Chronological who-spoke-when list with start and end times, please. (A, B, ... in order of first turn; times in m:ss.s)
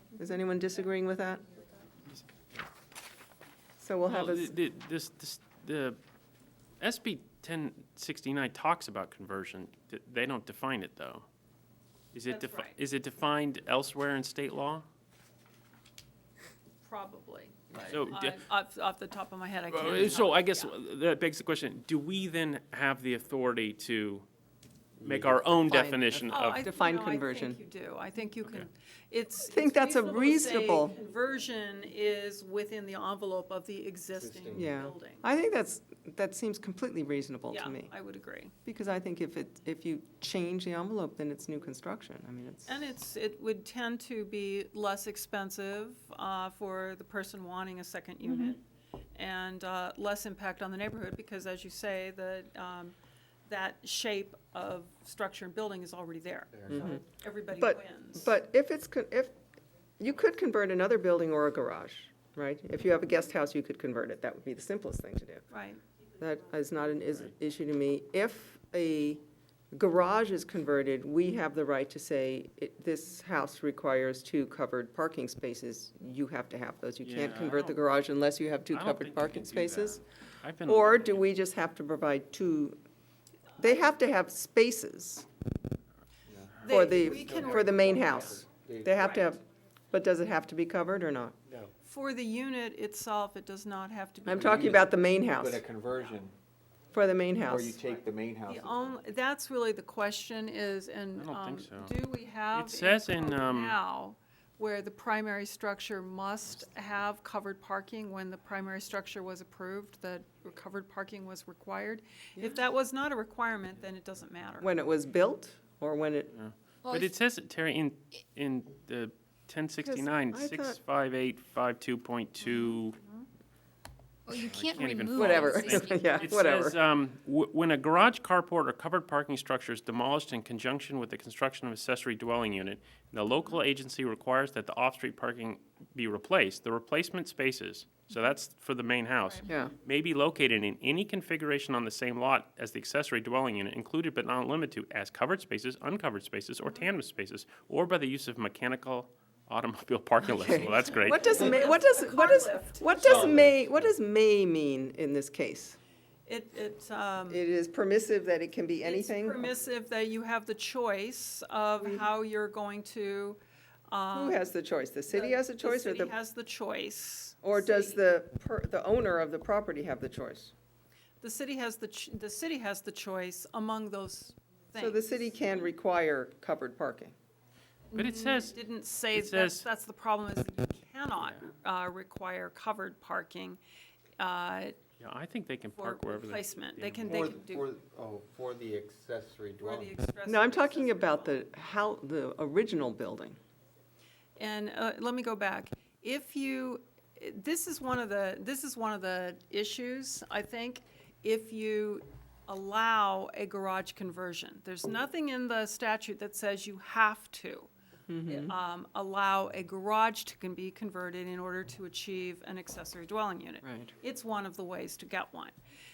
0:00.2-0:01.4 A
0:03.8-0:04.6 A
0:04.1-0:06.0 B
0:06.8-0:11.3 B
0:12.1-0:14.9 B
0:12.3-0:12.8 C
0:16.8-0:20.7 C
0:17.9-0:18.4 B
0:19.7-0:24.3 B
0:25.0-0:25.6 D
0:25.0-0:26.6 B
0:25.7-0:27.6 A
0:26.3-0:35.2 C
0:29.4-0:31.0 A
0:34.2-0:34.7 D
0:34.5-0:37.9 A
0:37.5-0:38.5 C
0:38.6-0:42.8 A
0:42.7-0:48.6 C
0:48.2-0:48.6 A
0:49.1-0:52.9 C
0:53.5-0:58.3 C
0:56.7-0:57.0 A
0:57.5-0:59.3 A
1:00.0-1:05.4 A
1:05.5-1:05.8 C
1:06.2-1:09.2 A
1:09.7-1:20.0 A
1:17.0-1:17.8 B
1:18.7-1:21.2 B
1:20.6-1:22.8 A
1:23.6-1:25.3 A
1:26.3-1:29.0 D
1:26.6-1:28.4 C
1:26.7-1:31.4 A
1:28.9-1:29.3 C
1:31.8-1:34.9 C
1:34.2-1:35.6 A
1:34.3-1:36.4 D
1:36.9-1:37.8 A
1:37.5-1:39.0 D
1:38.4-1:54.7 C
1:41.2-1:41.9 B
1:42.5-1:43.8 B
1:54.6-1:56.4 A
1:56.4-2:03.0 B
1:56.8-1:57.1 E
1:59.8-2:00.8 A
2:04.3-2:06.2 E
2:04.4-2:31.4 B
2:05.2-2:06.8 A
2:13.3-2:13.6 C
2:19.2-2:19.5 C
2:19.5-2:19.7 A
2:30.2-2:35.8 A
2:31.0-2:33.3 C
2:33.0-2:33.9 D
2:36.3-2:37.4 C
2:37.3-2:39.5 A
2:38.8-2:44.5 C
2:44.1-2:46.1 A
2:45.1-2:48.0 C
2:47.4-2:50.5 A
2:51.2-2:55.7 C
2:54.8-2:57.1 A
2:57.9-3:03.6 C
2:58.0-2:58.6 B
2:59.1-2:59.7 B
3:01.2-3:01.5 B
3:04.2-3:04.8 C
3:05.0-3:07.4 B
3:05.7-3:07.7 C
3:07.1-3:09.9 D
3:09.6-3:11.4 C
3:10.3-3:13.4 A
3:14.4-3:27.7 C
3:28.1-3:28.5 A
3:28.3-3:35.6 C
3:33.6-3:33.9 A